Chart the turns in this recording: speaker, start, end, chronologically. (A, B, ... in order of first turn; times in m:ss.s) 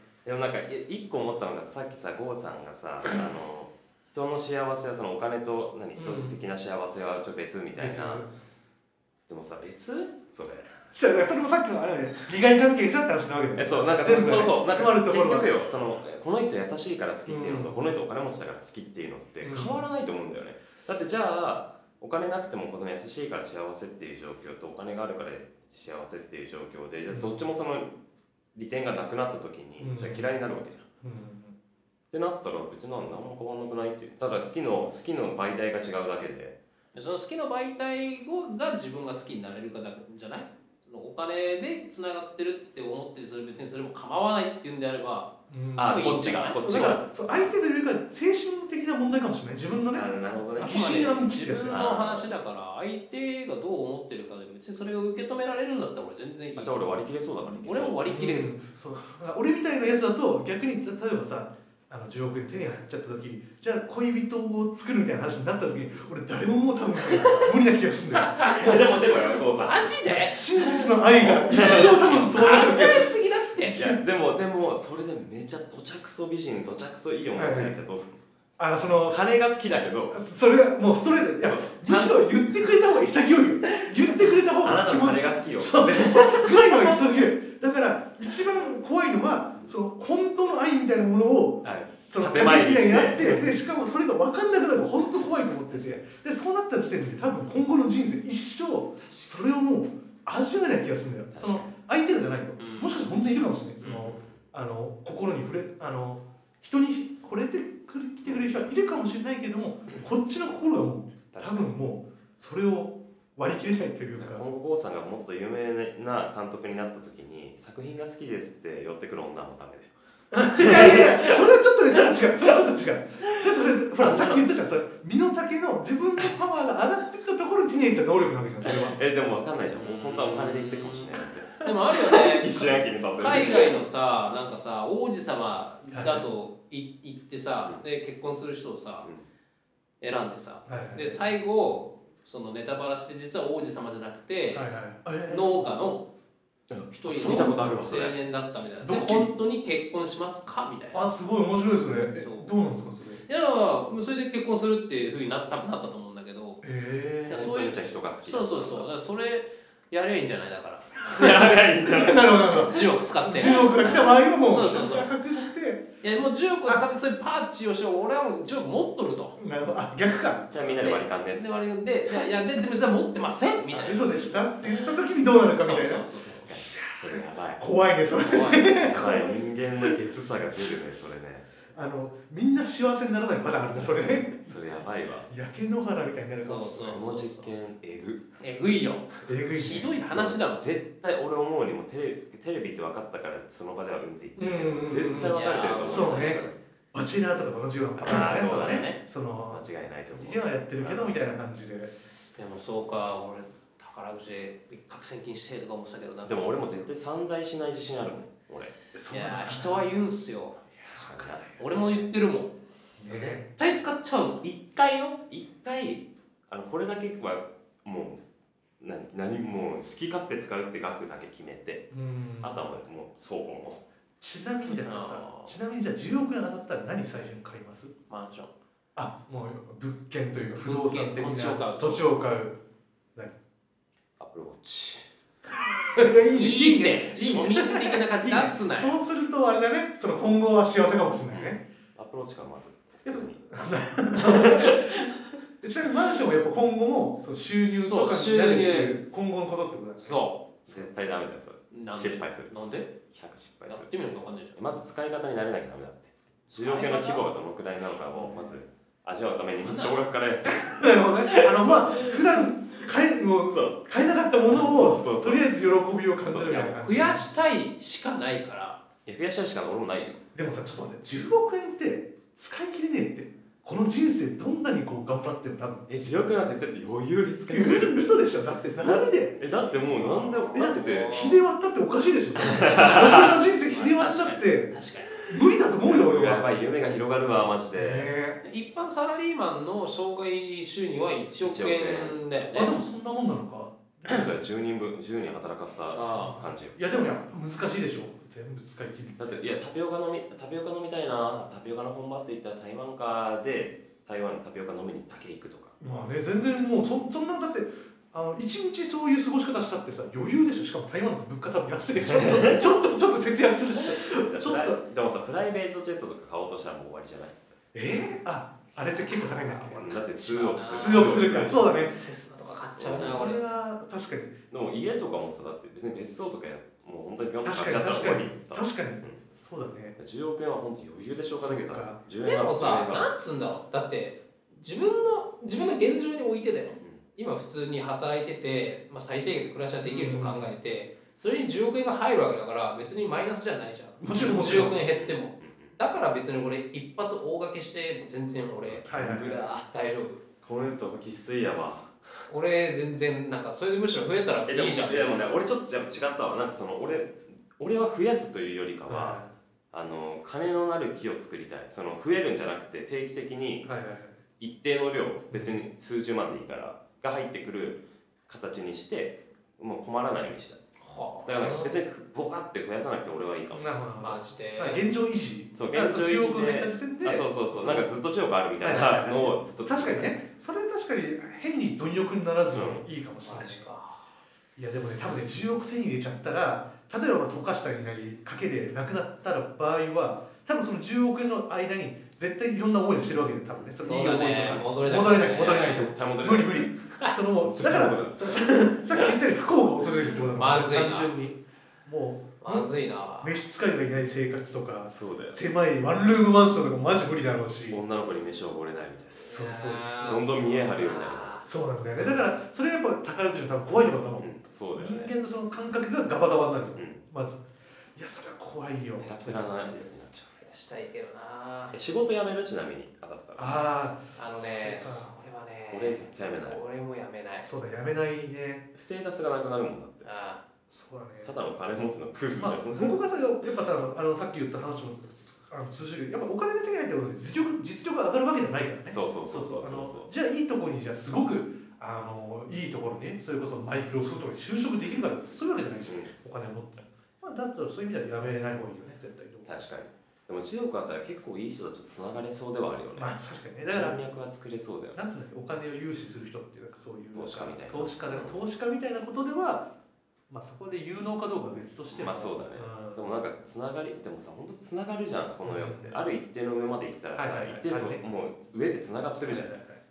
0:00.2-0:08.2 A
0:06.0-0:06.4 B
0:07.8-0:08.3 B
0:09.3-0:10.7 A
0:10.9-0:15.5 B
0:13.6-0:27.9 A
0:17.3-0:17.8 B
0:19.4-0:19.8 B
0:27.1-0:27.4 B
0:28.5-0:30.8 A
0:29.8-0:30.3 B
0:31.0-0:31.6 B
0:32.1-0:36.6 A
0:36.9-0:46.6 C
0:45.5-0:46.0 B
0:45.8-0:47.6 A
0:46.6-0:51.8 B
0:49.9-0:51.1 A
0:50.6-0:56.8 C
0:51.7-0:52.3 A
0:56.6-0:58.1 A
0:57.6-0:58.6 C
0:58.1-1:08.9 B
1:08.2-1:08.8 C
1:08.4-1:09.9 A
1:09.6-1:13.8 C
1:10.1-1:13.0 B
1:10.7-1:13.1 A
1:13.6-1:18.2 A
1:13.6-1:14.0 B
1:17.3-1:17.8 B
1:18.6-1:19.2 B
1:19.1-1:20.2 A
1:20.1-1:54.4 B
1:21.4-1:22.3 A
1:23.7-1:27.0 A
1:31.6-1:33.5 A
1:39.0-1:39.3 A
1:41.3-1:41.6 A
1:42.6-1:43.0 C
1:43.8-1:44.4 A
1:48.2-1:48.5 A
1:51.3-1:51.7 A
1:54.2-1:59.9 A
2:00.3-2:09.0 B
2:00.5-2:01.5 A
2:03.3-2:04.5 A
2:08.6-2:13.7 A
2:09.7-2:11.1 C
2:11.6-2:19.1 C
2:15.9-2:16.2 B
2:20.0-2:24.7 C
2:20.6-2:21.2 B
2:24.5-2:25.6 B
2:25.3-2:26.1 C
2:26.7-2:28.1 A
2:26.9-2:31.0 C
2:27.1-2:28.0 B
2:28.8-2:29.3 B
2:30.9-2:33.2 B
2:32.1-2:32.5 C
2:33.2-2:36.6 C
2:36.6-2:37.5 B
2:37.3-2:41.5 C
2:37.3-2:38.9 A
2:41.0-2:42.6 A
2:41.2-2:45.9 B
2:42.5-2:45.2 C
2:46.0-2:49.4 C
2:49.4-2:50.8 B
2:50.5-2:51.6 A
2:50.8-2:54.3 C
2:53.7-2:59.9 B
2:55.6-2:56.5 C
2:56.3-2:57.6 A
2:58.3-2:58.7 C
2:58.7-3:01.5 A
3:00.5-3:00.8 B
3:01.7-3:04.6 B
3:03.7-3:05.3 A
3:05.3-3:07.0 B
3:06.4-3:07.5 C
3:06.8-3:08.2 A
3:08.4-3:10.7 C
3:09.2-3:09.9 B
3:10.1-3:16.6 A
3:14.4-3:16.4 B
3:15.2-3:16.5 C
3:16.9-3:21.9 B
3:18.0-3:18.9 A
3:18.0-3:19.0 C
3:19.5-3:21.1 A
3:22.4-3:26.8 C
3:26.2-3:28.7 A
3:28.9-3:29.9 B
3:29.1-3:30.6 C
3:30.8-3:31.6 B
3:30.9-3:32.0 A
3:31.6-3:32.6 C
3:33.0-3:33.5 B
3:33.1-3:34.4 C
3:34.4-3:38.2 A
3:38.8-3:41.9 A
3:41.9-3:42.6 B
3:42.4-3:43.8 A
3:44.2-3:47.9 B
3:44.8-3:45.6 C
3:48.1-3:48.5 C
3:49.0-3:52.6 B
3:50.6-3:52.1 C
3:54.2-3:55.1 A
3:55.6-4:01.6 B
3:56.0-3:59.0 C
4:01.3-4:05.1 A
4:03.0-4:05.1 B
4:05.6-4:10.9 B
4:07.7-4:09.0 C
4:10.0-4:10.4 C
4:10.7-4:12.5 A
4:11.7-4:12.9 C
4:13.1-4:13.9 A
4:13.7-4:14.6 C
4:14.5-4:22.8 A
4:16.5-4:17.2 C
4:18.1-4:18.5 B
4:19.6-4:20.0 C
4:20.4-4:27.2 B
4:23.4-4:23.8 A
4:24.5-4:25.5 A
4:26.2-4:26.6 A
4:26.4-4:28.8 C
4:29.0-4:30.2 A
4:30.3-4:35.9 B
4:35.9-4:38.2 A
4:37.5-4:39.4 B
4:38.8-4:41.3 A
4:39.8-4:41.4 C
4:40.5-4:44.7 B
4:42.4-4:43.4 A
4:43.7-4:45.2 C
4:45.2-4:46.5 B
4:45.8-4:48.1 A
4:47.7-4:48.4 B
4:48.4-4:52.8 C
4:51.4-4:52.2 A
4:52.5-4:54.2 B
4:54.0-4:57.1 A
4:55.9-4:56.5 C
4:56.2-4:59.4 B
4:59.2-5:05.9 A
5:05.8-5:14.8 B
5:12.0-5:12.6 A
5:13.8-5:17.4 A
5:17.7-5:19.9 B
5:18.7-5:23.4 C
5:19.7-5:21.7 A
5:20.7-5:21.9 B
5:22.8-5:23.2 A
5:22.9-5:24.4 B
5:24.5-5:29.2 A
5:27.4-5:30.0 B
5:30.0-5:33.1 A
5:31.3-5:32.0 B
5:32.2-5:50.2 C
5:39.8-5:40.5 B
5:44.0-5:44.8 B
5:44.5-5:45.8 A
5:48.6-5:49.6 A
5:48.9-5:49.5 B
5:50.4-5:52.2 A
5:52.3-5:55.1 C
5:54.4-5:59.2 A
5:58.9-5:59.3 B
5:59.7-6:03.7 A
6:03.6-6:04.2 B
6:04.4-6:10.6 A
6:05.3-6:05.6 B
6:10.8-6:11.8 C
6:11.2-6:13.7 A
6:13.5-6:17.9 B
6:14.0-6:14.8 C
6:15.5-6:20.1 A
6:18.6-6:23.6 B
6:22.5-6:22.8 A
6:23.2-6:24.0 C
6:24.6-6:42.7 B
6:33.8-6:35.9 C
6:35.3-6:36.7 A
6:37.4-6:39.0 A
6:40.0-6:41.1 C
6:42.4-6:43.4 C
6:43.2-6:47.8 B
6:44.9-6:45.4 A
6:47.7-6:51.4 A
6:49.1-6:51.5 C
6:49.2-6:50.6 B
6:51.4-6:59.9 B
6:54.2-6:55.1 A
6:56.7-6:57.0 A
6:59.0-7:00.4 A
7:00.4-7:01.8 C
7:01.7-7:03.7 A
7:03.4-7:05.2 B
7:04.1-7:07.5 C
7:05.7-7:06.6 A
7:07.4-7:08.7 B
7:08.7-7:10.1 A
7:10.0-7:10.4 C
7:10.7-7:11.3 B
7:11.2-7:13.5 A
7:12.3-7:29.5 B
7:18.9-7:20.1 A
7:25.8-7:26.1 A
7:29.4-7:35.0 A
7:33.0-7:34.0 B
7:34.9-7:39.7 B
7:37.1-7:38.4 A
7:40.3-7:43.0 B
7:41.9-7:49.6 A
7:45.4-7:46.0 B
7:47.2-7:48.0 B
7:49.2-7:49.8 B